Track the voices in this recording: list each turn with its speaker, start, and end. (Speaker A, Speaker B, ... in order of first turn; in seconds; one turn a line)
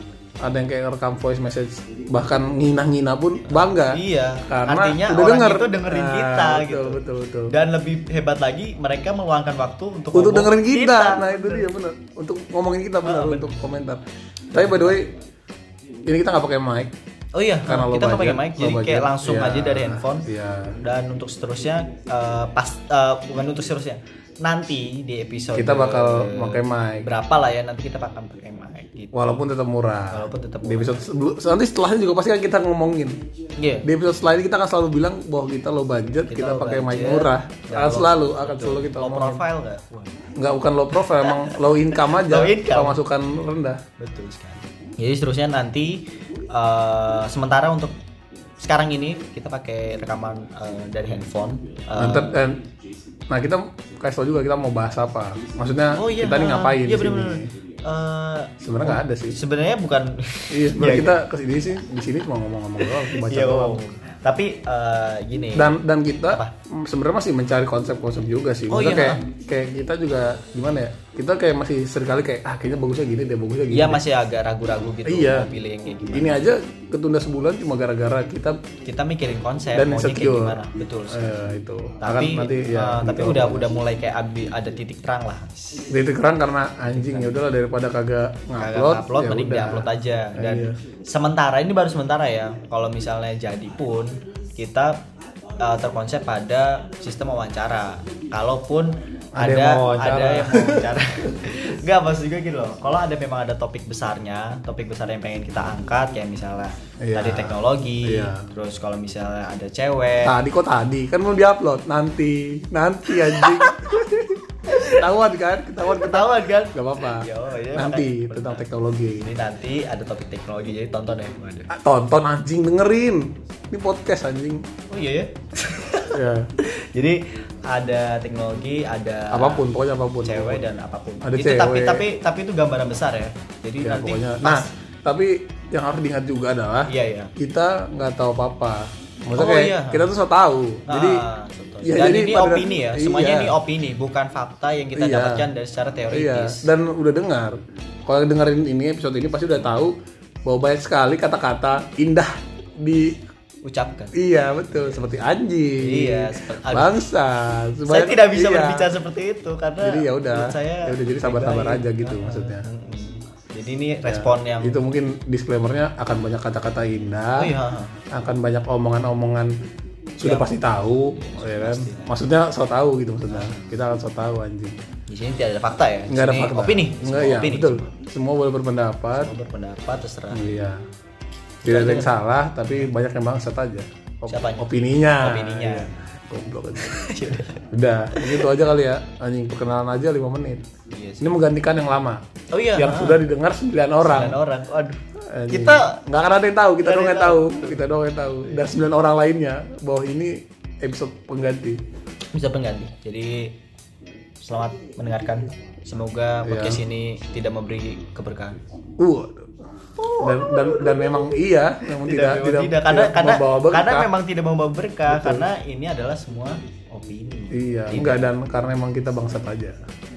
Speaker A: 0.4-7.5
Speaker B: 3.4-11.7
Speaker A: 10.1-14.0
Speaker B: 13.0-13.7
Speaker B: 14.5-15.1
Speaker A: 14.5-15.1
Speaker A: 16.1-16.9
Speaker B: 17.3-29.3
Speaker A: 17.7-20.8
Speaker A: 25.5-27.1
Speaker A: 29.1-33.2
Speaker B: 30.1-31.0
Speaker B: 33.6-33.9
Speaker A: 33.8-39.4
Speaker B: 36.2-40.2
Speaker A: 40.4-43.8
Speaker B: 40.9-43.0
Speaker B: 44.0-48.0
Speaker B: 48.6-52.4
Speaker A: 52.0-52.6
Speaker A: 53.3-57.5
Speaker B: 55.9-61.2
Speaker A: 58.6-59.4
Speaker A: 60.5-63.9
Speaker B: 62.8-65.7
Speaker A: 65.5-74.0
Speaker B: 68.7-69.2
Speaker B: 73.7-76.5
Speaker A: 75.0-75.5
Speaker A: 76.1-78.6
Speaker B: 78.8-81.5
Speaker A: 79.8-83.7
Speaker B: 82.0-85.9
Speaker A: 85.9-90.8
Speaker B: 86.8-87.5
Speaker B: 88.6-95.0
Speaker B: 95.6-110.3
Speaker A: 99.4-101.1
Speaker A: 107.0-108.4
Speaker A: 110.2-119.3
Speaker B: 113.1-113.9
Speaker B: 114.7-115.1
Speaker B: 115.8-121.7
Speaker A: 121.7-124.6
Speaker B: 124.9-129.7
Speaker A: 126.1-126.5
Speaker A: 129.3-130.6
Speaker B: 130.2-134.7
Speaker A: 131.2-132.1
Speaker A: 133.8-141.2
Speaker B: 136.9-137.3
Speaker B: 139.3-140.1
Speaker B: 140.9-146.7
Speaker A: 141.8-143.6
Speaker A: 144.9-145.5
Speaker A: 146.1-149.9
Speaker A: 150.4-153.2
Speaker B: 153.6-155.1
Speaker A: 154.1-158.9
Speaker B: 155.8-157.0
Speaker B: 157.9-164.8
Speaker A: 159.8-162.7
Speaker A: 164.1-167.5
Speaker B: 167.4-167.9
Speaker A: 168.1-169.5
Speaker A: 170.2-174.8
Speaker B: 170.2-172.1
Speaker B: 173.3-173.7
Speaker B: 175.1-177.9
Speaker A: 176.1-179.3
Speaker B: 179.1-180.4
Speaker A: 180.3-180.8
Speaker B: 181.6-182.2
Speaker A: 181.6-187.1
Speaker B: 184.3-185.9
Speaker B: 186.8-188.5
Speaker A: 187.7-190.7
Speaker B: 190.9-191.4
Speaker A: 191.2-192.2
Speaker B: 192.5-193.2
Speaker A: 192.8-194.4
Speaker B: 194.1-196.0
Speaker A: 195.3-201.8
Speaker B: 196.8-197.9
Speaker B: 198.4-198.7
Speaker B: 202.3-203.6
Speaker B: 204.4-208.6
Speaker A: 206.4-206.8
Speaker A: 209.0-209.5
Speaker B: 210.0-211.3
Speaker A: 210.2-214.1
Speaker B: 211.9-218.2
Speaker A: 215.1-215.5
Speaker A: 217.5-219.8